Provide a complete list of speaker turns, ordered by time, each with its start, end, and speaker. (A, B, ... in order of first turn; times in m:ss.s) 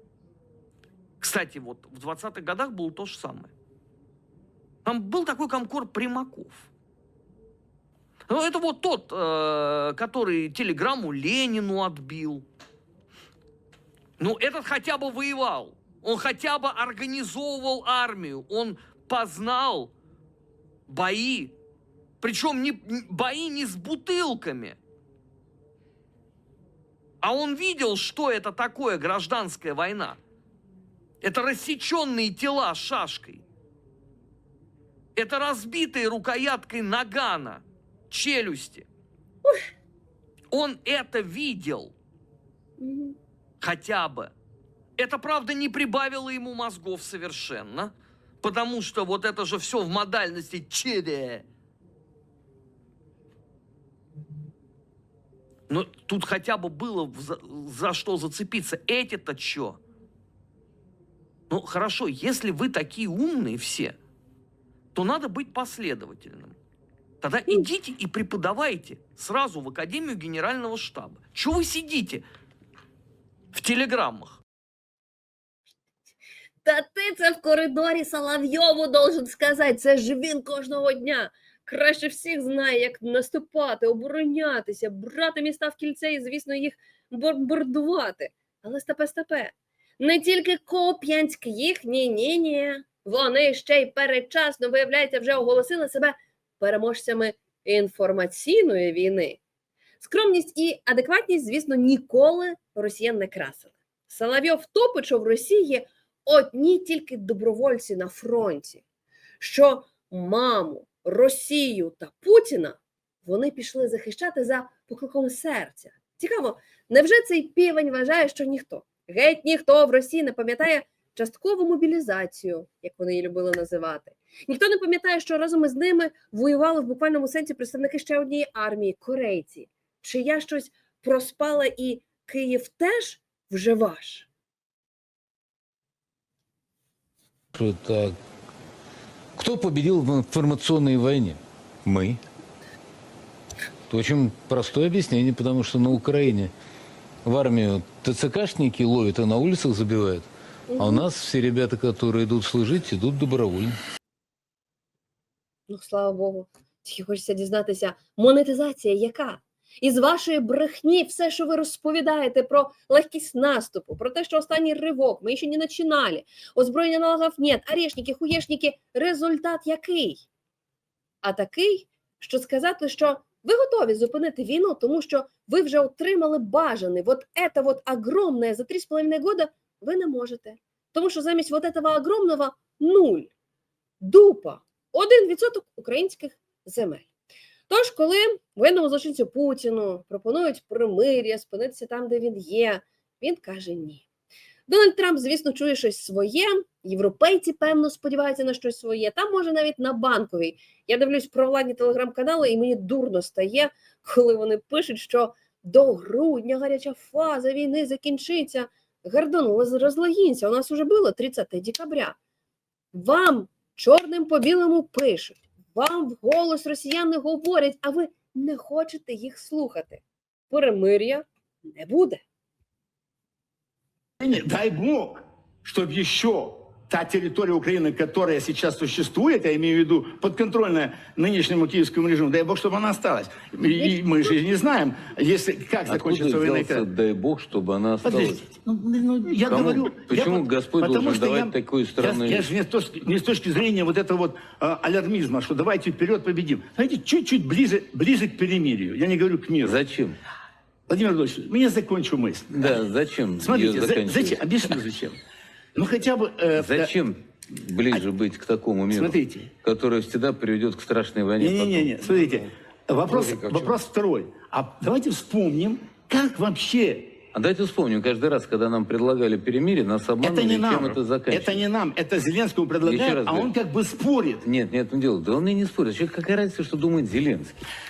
0:01.2-0:03.5 A
0:04.8-0:06.7 A
0:08.3-0:12.4 A
0:14.2-0:19.9 A
0:20.9-0:21.5 A
0:22.2-0:24.8 A
0:27.2-0:30.2 A
0:31.2-0:33.4 A
0:35.2-0:38.9 A
0:40.5-0:41.9 A
0:42.8-0:43.2 B
0:43.6-0:44.3 A
0:45.0-0:51.4 A
0:55.7-0:59.8 A
1:01.5-1:04.0 A
1:05.0-1:06.6 A
1:07.2-1:12.2 A
1:13.5-1:14.4 A
1:16.6-1:39.4 B
1:40.0-1:48.8 B
1:49.4-2:14.3 B
2:17.5-2:18.2 C
2:19.4-2:22.2 C
2:23.9-2:26.5 C
2:27.2-2:33.8 C
2:30.7-2:31.0 B
2:35.7-2:50.2 B
2:51.2-3:03.3 B
3:04.0-3:07.1 B
3:07.7-3:14.0 B
3:14.7-3:32.2 B
3:32.9-3:42.2 B
3:44.2-3:56.9 D
3:55.9-3:58.4 C
3:58.0-4:09.8 D
3:59.5-4:02.5 C
4:09.6-4:10.2 C
4:10.9-4:12.8 D
4:12.5-4:14.5 C
4:13.4-4:15.2 D
4:15.8-4:16.9 D
4:16.6-4:22.5 C
4:18.9-4:19.5 D
4:21.4-4:27.2 D
4:23.1-4:23.8 C
4:27.3-4:31.6 C
4:30.2-4:34.4 D
4:32.8-4:33.5 C
4:34.4-4:37.7 C